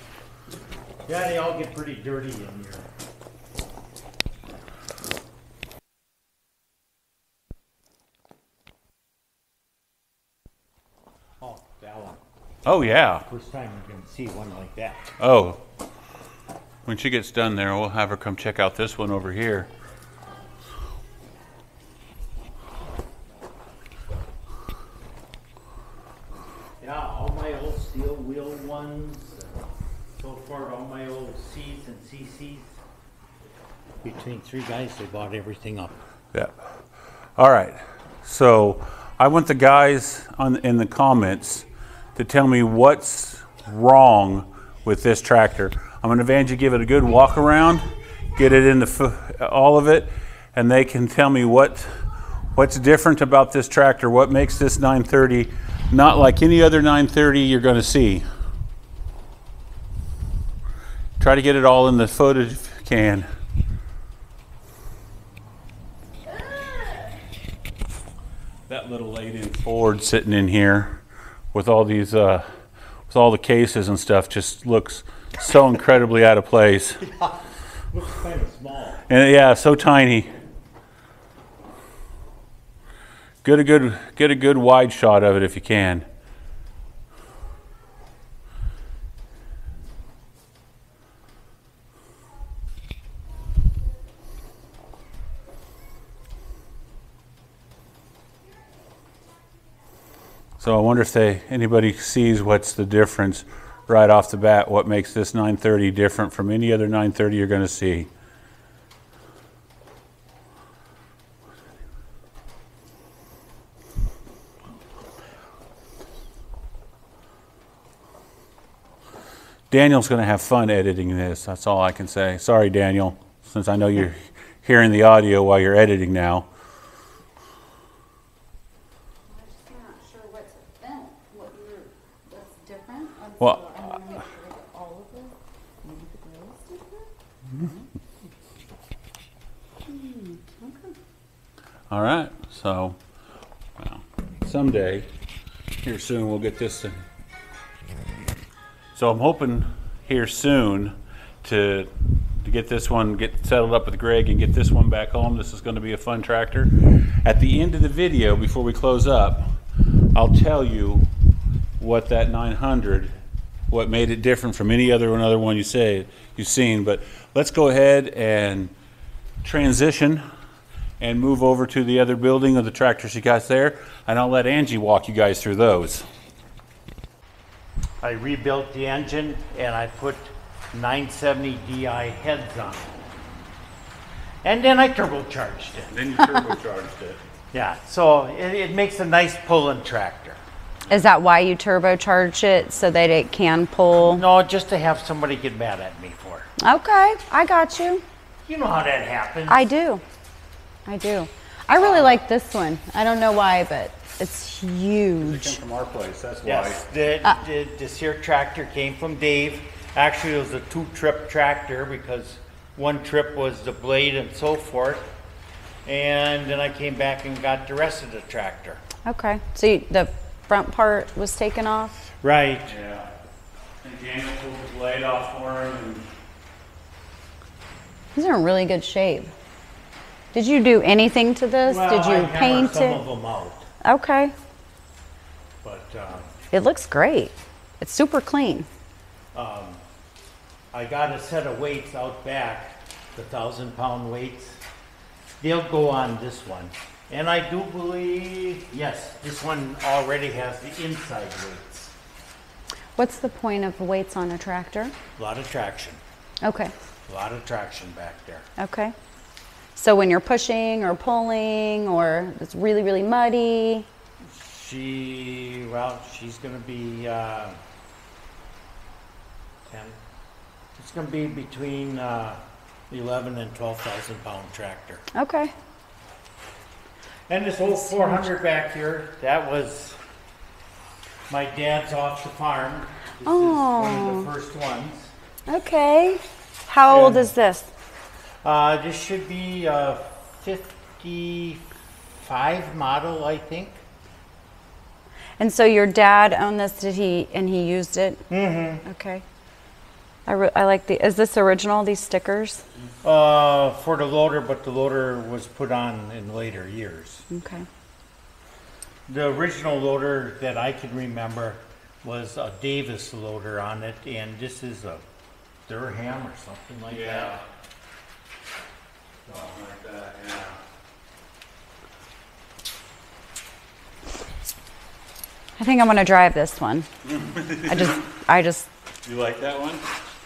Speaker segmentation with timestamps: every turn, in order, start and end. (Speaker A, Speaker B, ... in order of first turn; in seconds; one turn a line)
Speaker A: 1.1-2.9
Speaker A: 11.4-12.2
Speaker B: 12.7-13.3
Speaker A: 13.3-15.2
Speaker B: 15.2-15.6
Speaker B: 16.9-19.7
Speaker A: 26.8-32.8
Speaker A: 34.0-36.0
Speaker B: 36.3-36.8
Speaker B: 37.4-58.3
Speaker B: 61.2-63.3
Speaker B: 68.7-71.0
Speaker B: 71.5-72.5
Speaker B: 73.1-77.0
Speaker A: 77.0-79.0
Speaker B: 79.1-80.3
Speaker B: 83.4-86.1
Speaker B: 100.6-108.1
Speaker B: 119.7-126.5
Speaker C: 129.3-137.1
Speaker B: 133.4-133.9
Speaker C: 139.9-140.9
Speaker B: 141.9-143.0
Speaker B: 143.8-145.1
Speaker B: 145.8-147.0
Speaker B: 148.9-159.6
Speaker B: 160.1-161.1
Speaker B: 161.8-163.1
Speaker B: 163.7-168.7
Speaker B: 169.4-170.2
Speaker B: 171.0-176.1
Speaker A: 178.0-183.0
Speaker A: 184.4-185.9
Speaker B: 185.9-187.2
Speaker A: 187.5-190.4
Speaker C: 190.9-194.2
Speaker A: 194.1-196.5
Speaker C: 196.6-198.0
Speaker A: 198.5-199.6
Speaker C: 199.5-200.0
Speaker C: 200.9-205.6
Speaker A: 201.8-202.2
Speaker B: 205.2-206.9
Speaker A: 206.4-215.1
Speaker A: 215.9-218.8
Speaker C: 219.1-222.1
Speaker A: 222.2-222.7
Speaker B: 222.7-223.1
Speaker B: 223.8-226.1
Speaker C: 228.2-229.3
Speaker C: 230.3-233.0
Speaker A: 231.7-233.7
Speaker C: 233.8-234.3
Speaker A: 235.6-236.3
Speaker C: 236.5-238.7
Speaker A: 239.3-239.8
Speaker A: 240.7-244.6
Speaker A: 245.4-251.9
Speaker C: 253.0-254.9
Speaker A: 255.2-256.0
Speaker C: 256.4-256.7
Speaker A: 257.1-258.5
Speaker C: 258.6-258.9
Speaker C: 259.8-263.9
Speaker A: 264.2-267.6
Speaker A: 269.7-270.0
Speaker A: 270.8-275.1
Speaker C: 275.1-275.5
Speaker A: 277.3-280.0
Speaker C: 277.9-278.2
Speaker A: 281.3-285.1
Speaker C: 283.3-284.3
Speaker C: 285.5-287.7
Speaker A: 286.9-287.3
Speaker A: 288.4-291.6
Speaker A: 292.2-293.8
Speaker C: 295.4-298.3
Speaker A: 298.3-298.8
Speaker C: 298.9-299.2
Speaker C: 300.3-302.6
Speaker A: 303.0-307.2
Speaker C: 307.3-307.7
Speaker A: 309.1-315.1
Speaker A: 315.7-317.4
Speaker B: 316.9-317.4
Speaker B: 319.3-320.6
Speaker C: 325.6-326.9
Speaker B: 327.0-328.1
Speaker C: 327.7-328.7
Speaker B: 329.1-329.8